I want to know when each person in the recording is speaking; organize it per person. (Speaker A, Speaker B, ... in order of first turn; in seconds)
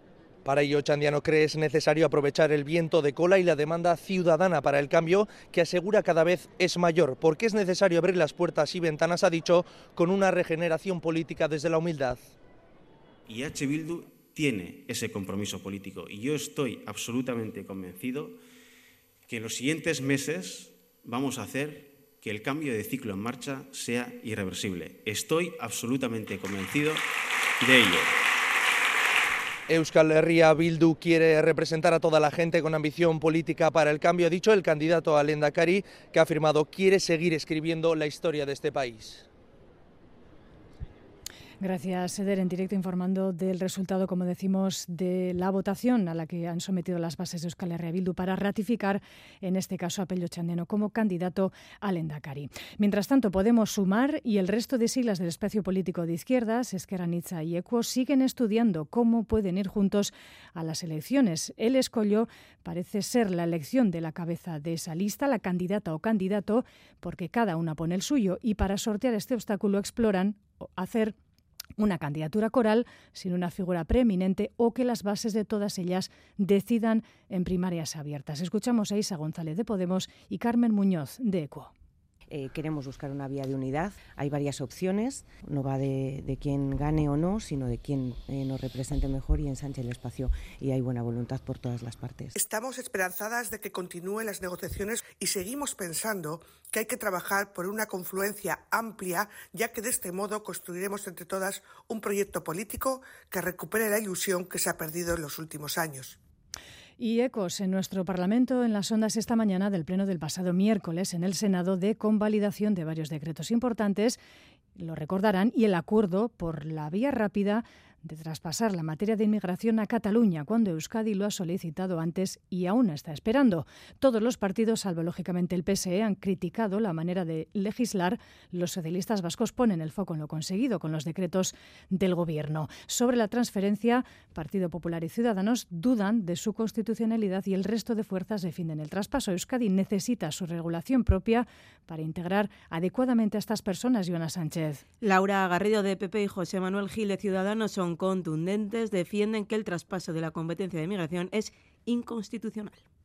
Speaker A: 0.4-12.3, 29.7-39.2
Speaker B: 13.3-18.4, 19.3-27.0, 27.6-28.1
Speaker C: 41.6-71.1, 71.8-81.7, 107.0-114.2, 114.8-144.8
Speaker D: 82.3-92.3
Speaker E: 92.3-106.2
Speaker F: 145.0-152.8